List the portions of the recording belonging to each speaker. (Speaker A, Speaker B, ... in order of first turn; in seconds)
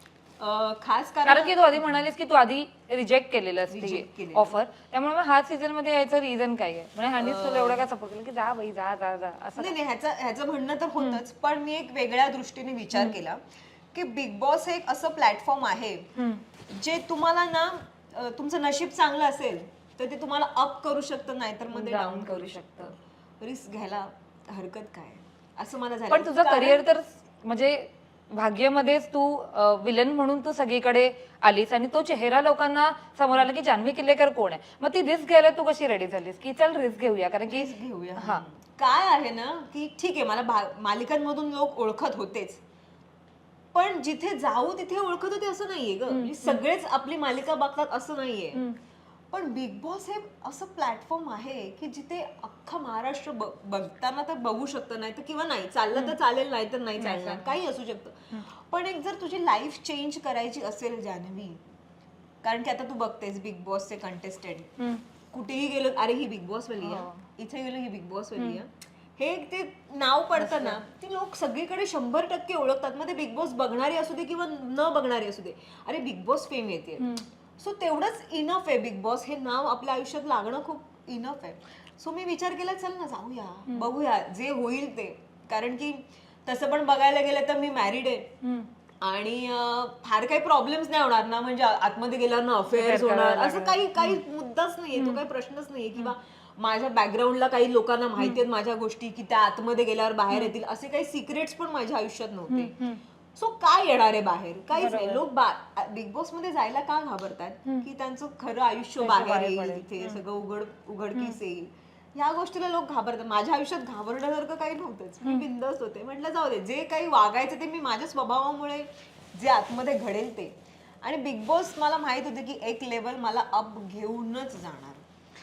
Speaker A: 0.4-2.0, 3.7-4.5, 7.2-7.9, 9.6-13.4, 13.9-16.1, 16.7-26.8, 37.5-42.6, 43.7-48.6, 49.3-61.6, 62.4-64.7, 65.3-88.3, 89.0-102.8, 103.3-125.0
Speaker B: 1.2-9.7, 16.1-16.4, 21.7-22.9, 26.1-38.4, 46.1-46.6, 57.0-57.6, 66.8-67.2, 70.3-70.8, 77.0-77.2, 88.4-88.7, 92.7-94.2, 102.5-103.0, 104.7-105.2, 109.0-110.2